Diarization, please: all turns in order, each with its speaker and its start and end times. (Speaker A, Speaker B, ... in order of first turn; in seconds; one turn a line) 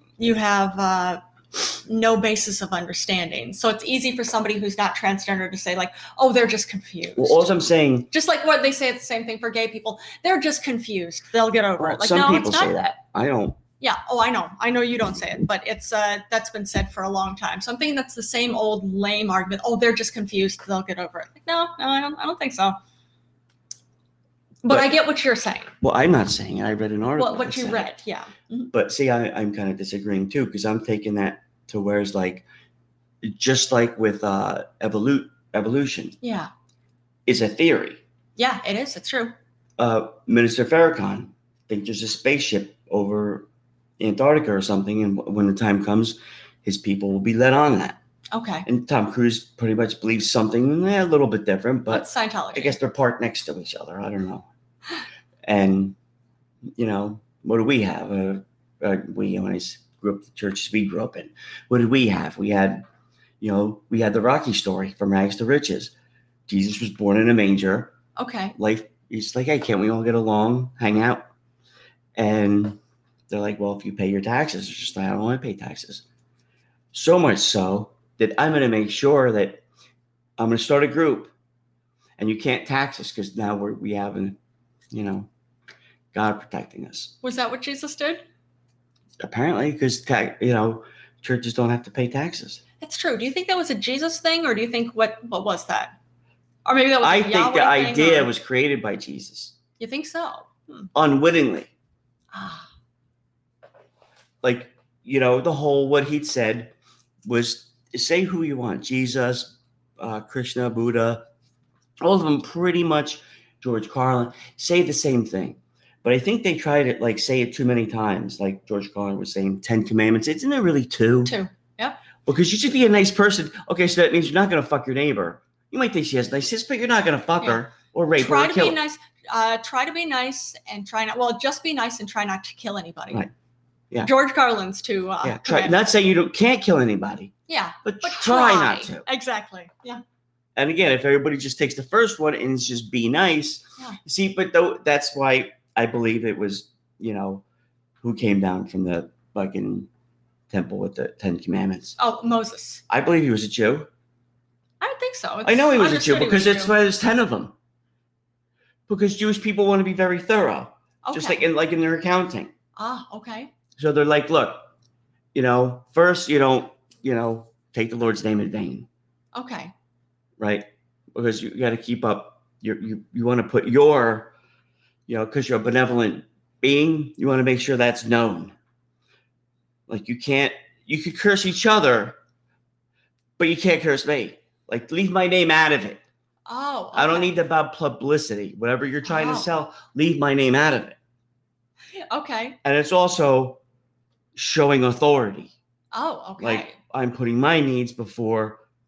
Speaker A: 0.2-7.5
Speaker B: 7.2-8.1
Speaker A: 8.1-12.8
Speaker B: 11.8-13.6
Speaker A: 13.8-22.8
Speaker A: 24.6-25.7
Speaker B: 24.7-24.9
Speaker B: 25.8-27.9
Speaker A: 27.2-28.7
Speaker B: 28.7-32.5
Speaker B: 33.2-36.2
Speaker A: 36.2-36.5
Speaker B: 37.3-38.0
Speaker A: 38.4-39.3
Speaker B: 39.8-43.5
Speaker B: 44.0-48.0
Speaker A: 48.3-48.7
Speaker B: 48.7-54.5
Speaker A: 51.9-52.8
Speaker B: 55.4-56.0
Speaker B: 56.8-62.9
Speaker B: 63.4-65.9
Speaker B: 66.5-68.0
Speaker A: 68.2-68.6
Speaker B: 68.6-71.3
Speaker B: 72.2-76.0
Speaker B: 76.9-79.6
Speaker B: 80.4-81.3
Speaker B: 82.2-84.4
Speaker B: 84.9-85.3
Speaker B: 86.1-87.2
Speaker A: 87.2-88.2
Speaker B: 89.2-92.6
Speaker A: 92.8-96.0
Speaker A: 96.7-98.3
Speaker B: 97.0-99.5
Speaker A: 99.8-100.9
Speaker B: 100.9-101.7
Speaker A: 102.3-102.7
Speaker B: 104.4-106.7
Speaker B: 107.2-111.2
Speaker B: 112.0-121.4
Speaker A: 121.2-122.0
Speaker B: 122.3-128.8
Speaker A: 128.2-133.3
Speaker A: 134.0-135.8
Speaker B: 135.2-137.3
Speaker A: 137.5-140.0
Speaker B: 137.8-139.1
Speaker B: 140.6-147.4
Speaker B: 148.0-149.9
Speaker B: 150.5-152.0
Speaker A: 152.0-152.8
Speaker B: 152.9-153.9
Speaker A: 154.8-156.7
Speaker B: 155.4-157.5
Speaker B: 158.9-162.5
Speaker A: 161.0-161.4
Speaker A: 162.8-163.5
Speaker B: 163.8-164.7
Speaker B: 165.3-168.9
Speaker A: 169.3-169.7
Speaker B: 170.4-174.3
Speaker B: 175.1-178.6
Speaker B: 179.9-182.2
Speaker B: 183.4-186.0
Speaker A: 186.5-187.3
Speaker B: 186.9-191.0
Speaker A: 189.0-189.5
Speaker A: 192.0-192.6
Speaker B: 192.6-193.6
Speaker B: 194.4-195.5
Speaker A: 195.9-196.8
Speaker B: 196.4-198.6